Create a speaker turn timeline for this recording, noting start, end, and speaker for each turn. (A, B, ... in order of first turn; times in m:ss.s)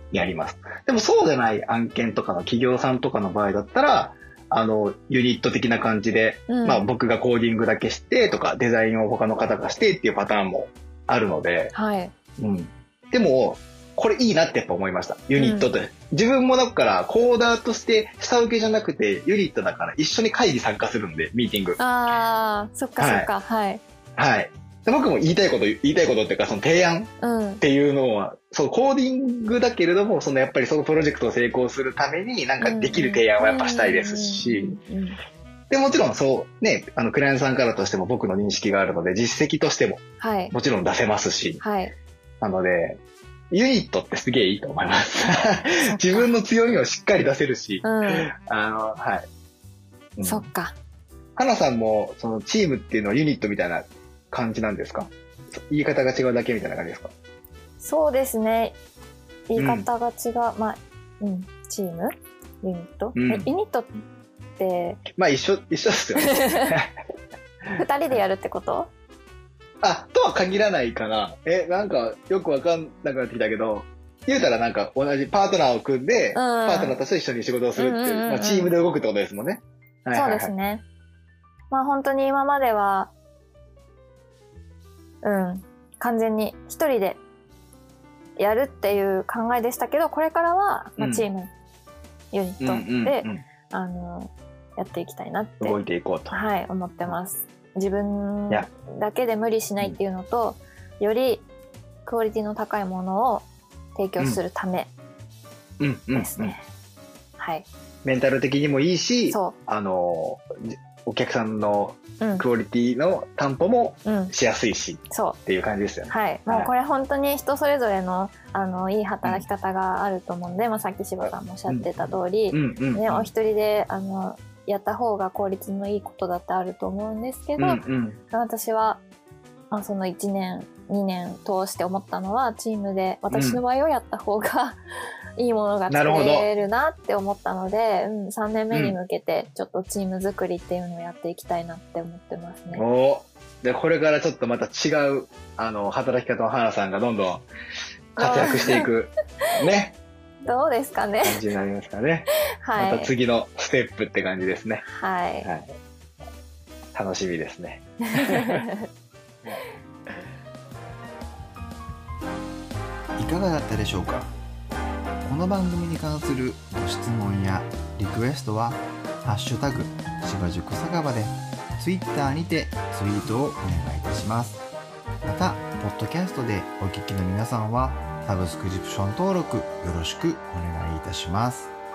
0:00.1-0:11.7 A
0:06.5-0:06.8 B
0:11.7-0:12.1 B
0:12.4-0:21.8 A
0:15.4-0:15.7 B
0:21.8-0:23.8 B
0:23.0-0:23.3 A
0:24.2-0:34.8 A
0:27.2-0:27.6 B
0:32.6-0:35.2 B
0:35.7-0:41.6 A
0:40.2-0:40.5 B
0:41.6-0:41.9 B
0:42.4-0:49.3 A
0:45.8-0:46.3 B
0:47.8-0:48.3 B
0:50.2-0:50.5 A
0:50.2-0:50.7 B
0:51.4-0:57.1 A
0:57.8-0:58.8 B
0:59.5-1:03.9 B
0:59.6-0:59.9 A
1:03.1-1:03.5 A
1:04.6-1:05.0 B
1:05.1-1:06.9 A
1:06.2-1:06.7 B
1:07.7-1:08.2 A
1:07.8-1:08.9 B
1:09.8-1:20.5 A
1:16.3-1:17.0 B
1:17.8-1:18.7 B
1:20.1-1:20.8 B
1:21.7-1:23.1 B
1:25.2-1:27.2 B
1:28.4-1:31.5 B
1:31.0-1:31.3 A
1:32.3-1:35.8 B
1:32.6-1:33.4 A
1:35.6-1:36.4 A
1:36.3-1:41.4 B
1:42.0-1:44.9 B
1:45.8-1:46.6 A
1:46.1-1:46.6 B
1:47.4-1:47.7 B
1:48.0-1:56.7 A
1:49.3-1:49.6 B
1:52.2-1:52.4 B
1:54.0-1:54.3 B
1:55.1-1:55.4 B
1:56.1-2:09.0 B
2:01.2-2:03.3 A
2:07.6-2:08.2 A
2:09.7-2:14.8 B
2:13.3-2:13.6 A
2:15.4-2:22.8 B
2:15.9-2:16.5 A
2:18.7-2:19.0 A
2:22.7-2:27.4 A
2:28.2-2:28.9 B
2:28.2-2:30.0 A
2:30.4-2:31.4 B
2:31.2-2:34.8 A
2:32.6-2:33.1 B
2:34.8-2:35.5 B
2:35.4-2:35.7 A
2:36.9-2:38.7 A
2:38.2-2:38.8 B
2:43.2-2:44.3 C
2:45.2-2:54.6 C
2:55.2-3:01.7 C